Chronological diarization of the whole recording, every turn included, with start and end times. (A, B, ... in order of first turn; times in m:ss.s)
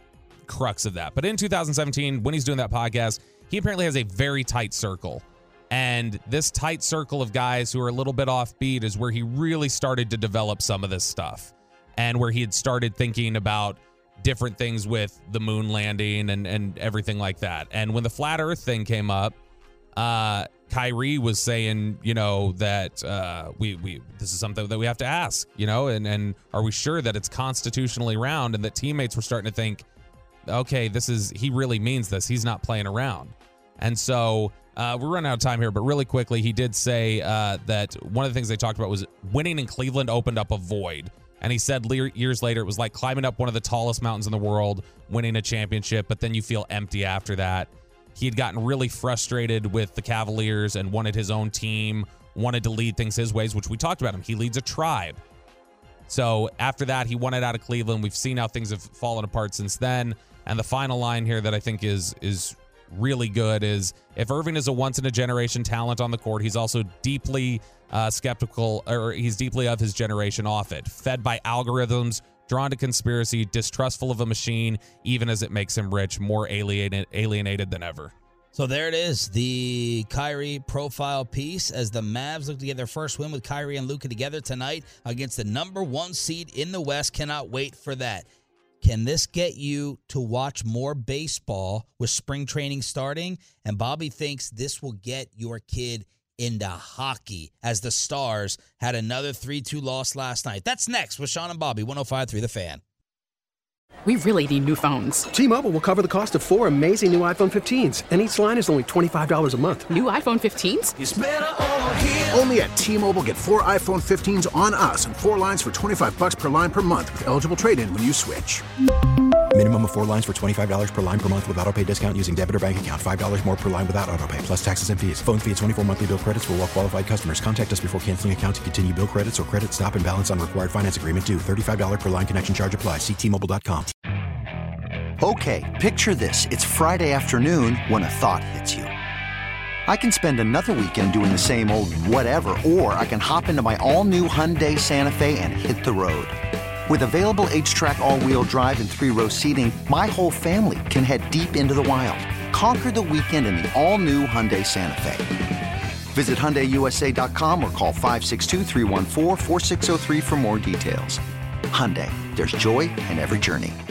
0:00.5-0:19.4 A
0:20.0-0:29.8 A
0:30.5-0:55.2 A
0:56.1-1:18.1 A
1:18.5-1:28.3 B
1:28.8-1:42.8 B
1:44.0-1:45.3 C
1:45.3-1:49.9 D
1:49.9-1:51.0 C
1:51.0-1:58.6 E
1:59.5-2:13.9 F
2:15.2-2:18.9 G
2:19.9-2:26.3 G
2:26.9-2:35.3 G
2:36.1-2:41.2 G
2:41.7-2:43.8 G